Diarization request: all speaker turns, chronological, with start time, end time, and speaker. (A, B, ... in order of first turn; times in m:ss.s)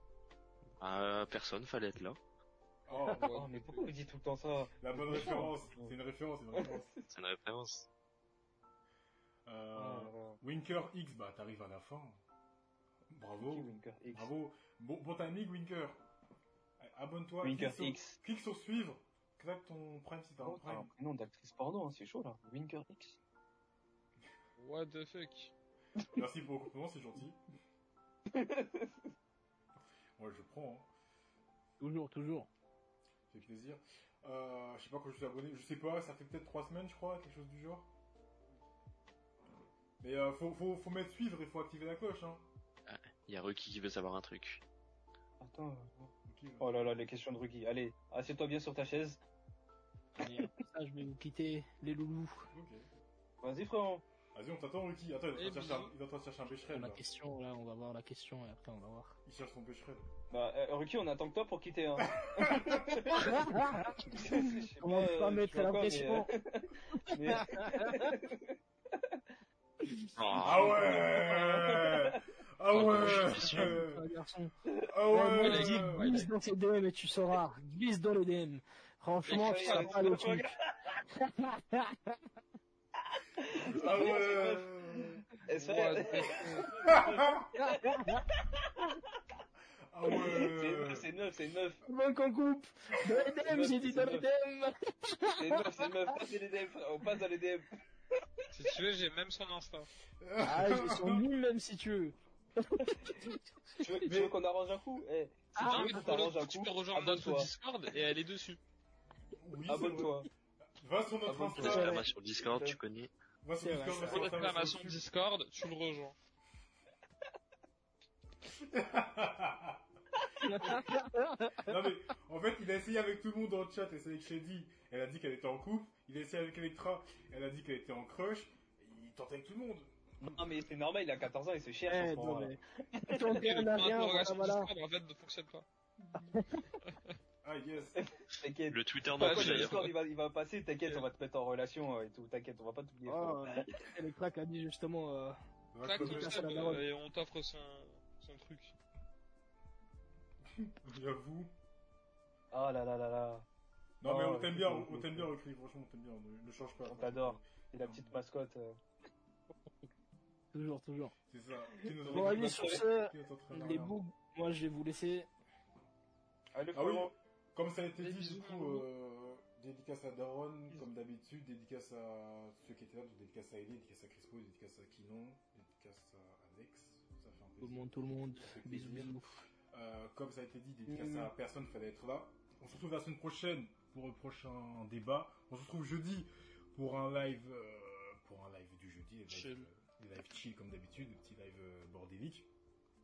0:00.8-0:02.2 A
0:02.9-0:03.3 B
0:03.0-0:04.1 C
0:03.2-0:05.9 D
0:04.8-0:06.9 B
0:06.6-0:07.1 D
0:07.1-0:07.9 A
0:09.5-0:12.2 B
0:09.8-0:10.4 D
0:13.1-0:16.0 B
0:13.4-0:14.3 D
0:16.8-0:20.9 B
0:17.4-0:18.2 D
0:20.4-0:23.2 D
0:24.6-0:25.5 C
0:26.1-0:27.4 B
0:28.3-0:29.0 D
0:30.2-0:30.9 B
0:31.8-0:32.5 E
0:33.3-0:37.9 B
0:40.0-0:42.5 B
0:42.9-0:44.6 A
0:45.4-0:49.2 D
0:46.3-0:46.9 B
0:50.2-0:52.5 E
0:52.5-0:52.9 B
0:53.4-0:54.0 D
0:54.3-0:57.0 B
0:55.4-0:55.9 C
0:56.6-0:59.2 E
0:59.2-1:00.1 B
1:00.3-1:09.2 D
1:02.0-1:03.0 B
1:03.1-1:06.3 E
1:06.9-1:08.2 E
1:10.2-1:11.0 A
1:10.4-1:14.0 B
1:10.6-1:12.2 D
1:12.7-1:13.1 A
1:12.8-1:13.7 C
1:13.1-1:14.5 E
1:14.9-1:16.2 B
1:15.1-1:20.5 E
1:15.4-1:16.3 C
1:19.3-1:20.2 C
1:19.3-1:21.0 D
1:21.2-1:22.2 E
1:23.1-1:29.0 D
1:23.7-1:25.3 B
1:25.5-1:26.7 C
1:26.8-1:27.5 B
1:27.6-1:28.2 E
1:29.9-1:31.1 B
1:30.1-1:31.8 D
1:31.9-1:36.3 E
1:33.0-1:34.2 D
1:35.4-1:37.7 D
1:38.5-1:39.9 C
1:40.2-1:41.3 B
1:40.4-1:44.2 E
1:43.8-1:47.5 D
1:44.0-1:44.4 B
1:45.6-1:46.1 E
1:45.6-1:48.6 C
1:49.4-1:50.2 B
1:49.7-1:50.3 D
1:50.8-1:52.0 B
1:51.3-1:52.8 D
1:51.6-1:53.1 A
1:51.8-1:52.0 E
1:53.4-1:55.0 B
1:53.6-1:54.4 E
1:54.0-1:56.2 C
1:58.6-1:59.8 B
2:00.4-2:01.7 E
2:00.5-2:01.0 B
2:01.6-2:10.2 B
2:10.2-2:13.4 D
2:11.9-2:14.7 E
2:13.3-2:15.7 C
2:16.2-2:16.6 E
2:16.8-2:17.2 C
2:17.4-2:18.0 B
2:18.0-2:23.8 D
2:18.7-2:19.9 A
2:19.2-2:20.0 C
2:23.1-2:25.4 E
2:25.7-2:26.4 B
2:25.8-2:28.8 C
2:25.9-2:26.8 E
2:30.5-2:31.5 B
2:32.5-2:33.5 D
2:34.0-2:38.2 B
2:34.0-2:35.3 D
2:36.9-2:38.8 D
2:40.5-2:41.1 E
2:41.3-2:44.0 B
2:41.8-2:42.8 D
2:42.1-2:45.3 E
2:46.5-2:47.1 D
2:46.7-2:57.9 B
2:48.0-2:48.9 C
2:57.6-2:59.4 E
2:58.4-2:59.1 B
2:59.7-3:12.5 B
3:09.3-3:09.7 C